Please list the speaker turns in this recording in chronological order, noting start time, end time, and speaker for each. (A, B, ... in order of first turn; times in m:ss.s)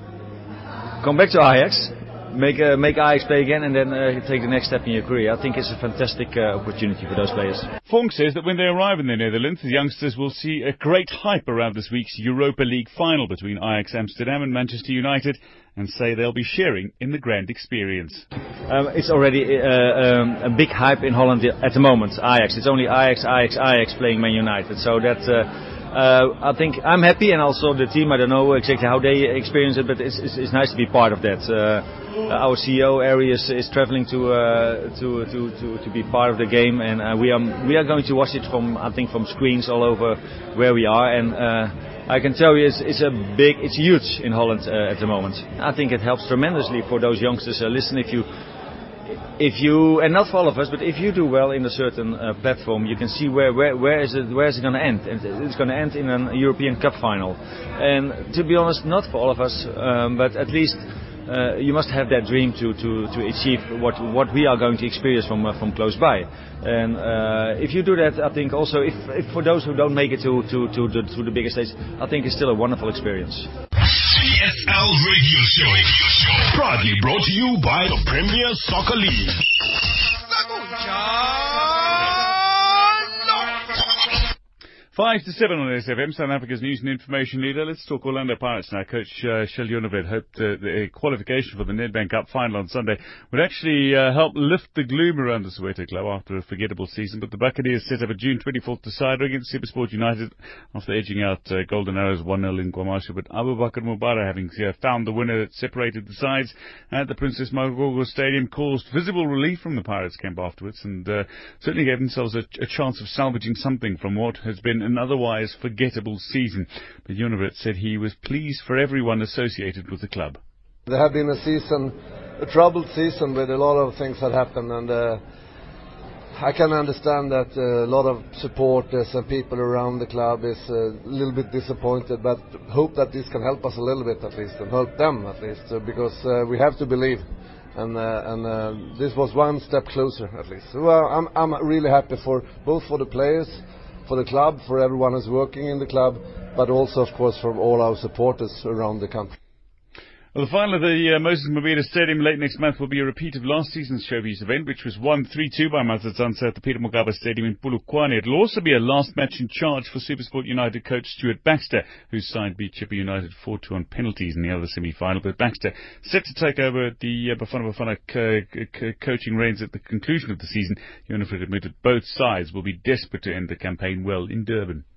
0:01.0-0:07.7 A
0:07.9-0:18.2 B
0:18.7-0:48.3 A
0:49.4-1:13.5 A
1:13.8-1:19.5 C
1:24.9-2:00.4 B
2:00.9-2:05.2 D
2:06.4-2:29.3 D
2:30.3-2:54.8 B